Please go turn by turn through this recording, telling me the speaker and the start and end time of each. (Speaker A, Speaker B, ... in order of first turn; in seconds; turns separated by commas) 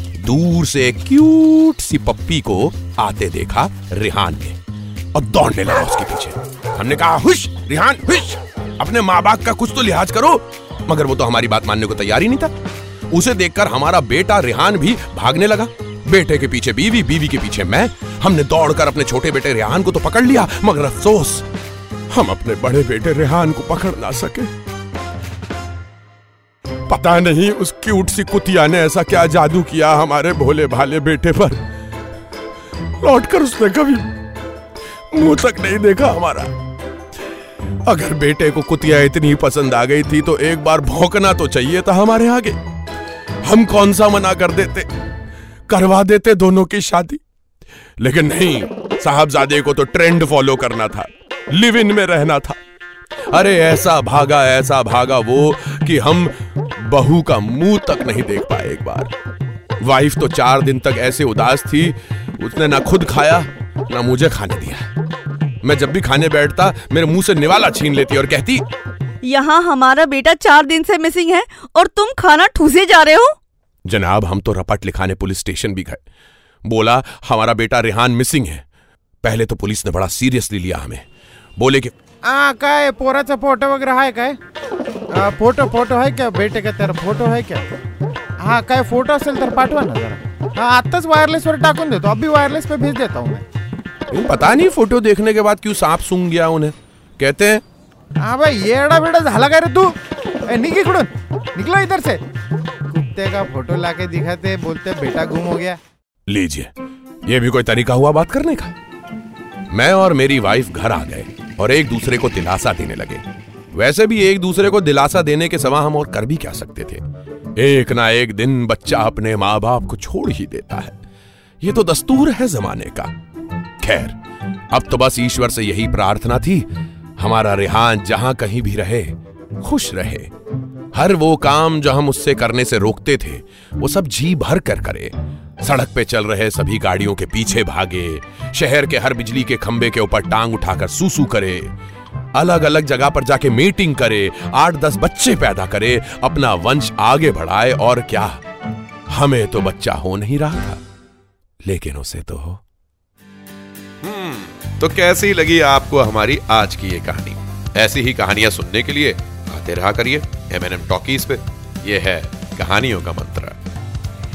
Speaker A: 0.1-4.6, Speaker A: 5.1-12.5, Speaker A: 13.1-21.5, Speaker A: 22.1-24.5, Speaker A: 26.9-31.6, Speaker A: 33.0-34.2, Speaker A: 35.1-36.5, Speaker A: 37.7-42.6, Speaker A: 43.4-44.9, Speaker A: 45.7-47.2, Speaker A: 48.0-52.6, Speaker A: 53.3-59.1, Speaker A: 59.8-64.9, Speaker A: 65.6-68.7, Speaker B: 69.2-73.3, Speaker A: 73.8-76.0, Speaker A: 76.6-78.6, Speaker A: 79.2-81.0, Speaker A: 81.6-81.9, Speaker C: 82.2-84.4, Speaker C: 85.1-87.7, Speaker C: 88.4-93.4, Speaker A: 94.1-97.6, Speaker C: 98.2-99.9, Speaker C: 100.5-102.2, Speaker C: 102.9-105.8, Speaker A: 106.3-106.7, Speaker A: 107.2-108.7, Speaker A: 109.7-117.0, Speaker A: 117.5-121.0, Speaker A: 121.6-123.1, Speaker A: 123.8-124.2, Speaker A: 124.7-130.3, Speaker A: 130.9-141.8, Speaker A: 142.3-148.4, Speaker A: 149.1-150.8, Speaker A: 151.6-152.6, Speaker A: 154.0-163.7